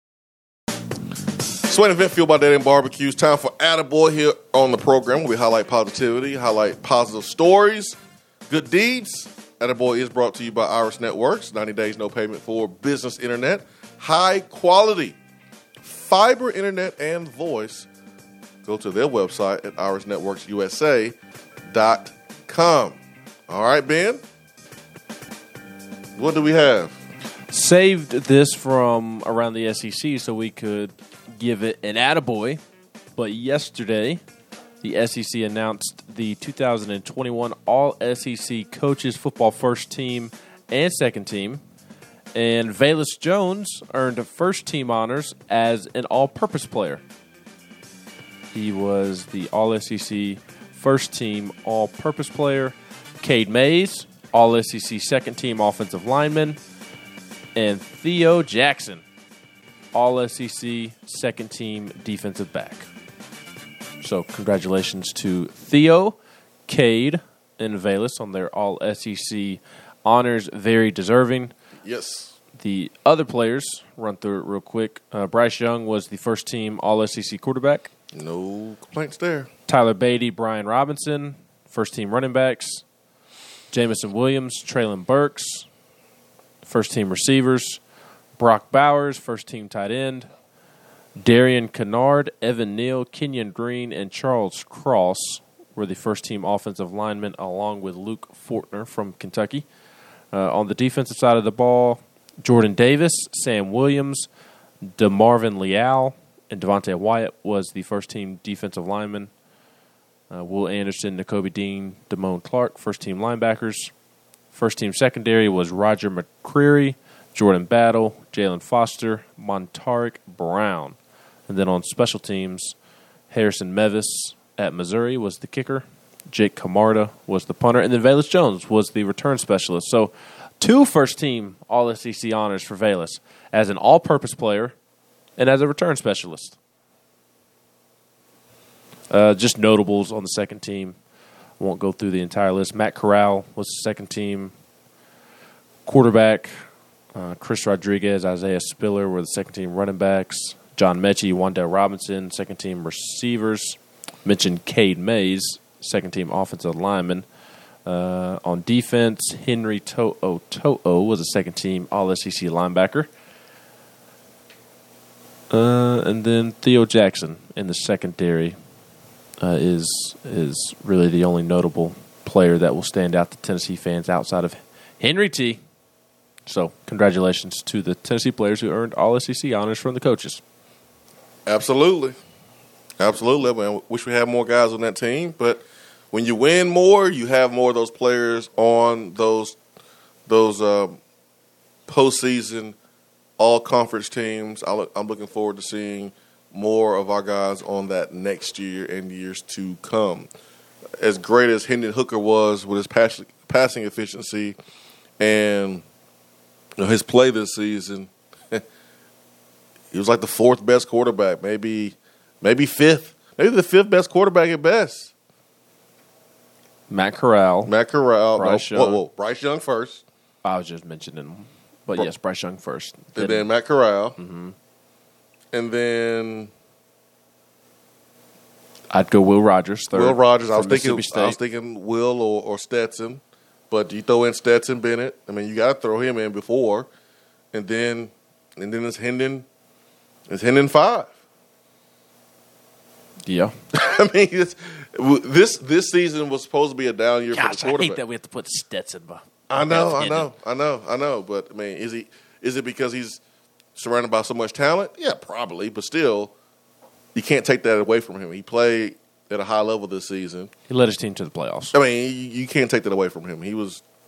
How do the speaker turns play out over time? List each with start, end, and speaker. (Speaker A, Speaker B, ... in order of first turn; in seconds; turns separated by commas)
Speaker A: 1.7-8.0, Speaker A: 8.5-15.2, Speaker A: 15.8-17.9, Speaker A: 18.6-21.2, Speaker A: 21.7-23.0, Speaker A: 23.5-24.2, Speaker A: 26.2-27.0, Speaker B: 27.5-32.6, Speaker B: 33.2-34.2, Speaker B: 34.8-41.6, Speaker B: 42.3-47.0, Speaker B: 48.5-56.6, Speaker B: 57.5-59.0, Speaker B: 59.9-62.9, Speaker B: 64.0-71.5, Speaker A: 71.8-72.4, Speaker B: 72.5-77.9, Speaker A: 78.1-79.5, Speaker B: 79.7-82.8, Speaker B: 83.7-85.7, Speaker B: 86.6-87.8, Speaker B: 88.4-90.3, Speaker B: 91.2-99.7, Speaker B: 100.3-104.3, Speaker B: 104.8-109.3, Speaker B: 110.3-113.9, Speaker B: 114.5-121.0, Speaker B: 121.5-122.8, Speaker B: 123.3-134.8, Speaker B: 135.4-136.6, Speaker B: 139.1-141.0, Speaker B: 141.6-144.5, Speaker B: 145.9-157.2, Speaker B: 157.8-163.1, Speaker B: 165.5-168.6, Speaker B: 169.4-175.6, Speaker B: 176.5-180.4, Speaker A: 181.5-182.2, Speaker A: 183.0-189.6, Speaker A: 190.3-191.0, Speaker A: 191.9-192.8, Speaker A: 193.4-200.3, Speaker A: 201.0-204.6, Speaker A: 205.2-205.8, Speaker A: 206.8-208.6, Speaker A: 209.9-215.1, Speaker B: 216.9-217.7, Speaker A: 217.7-220.0, Speaker B: 218.4-219.0, Speaker B: 220.4-223.5, Speaker A: 223.2-224.2, Speaker B: 224.2-224.6, Speaker A: 225.5-226.5, Speaker B: 228.9-231.4, Speaker A: 229.9-236.9, Speaker A: 237.5-239.4, Speaker A: 240.3-241.1, Speaker B: 243.3-243.6, Speaker A: 243.7-248.0, Speaker B: 247.3-250.3, Speaker A: 249.5-253.2, Speaker A: 253.8-256.3, Speaker A: 257.1-260.5, Speaker B: 260.7-261.7, Speaker A: 261.7-263.8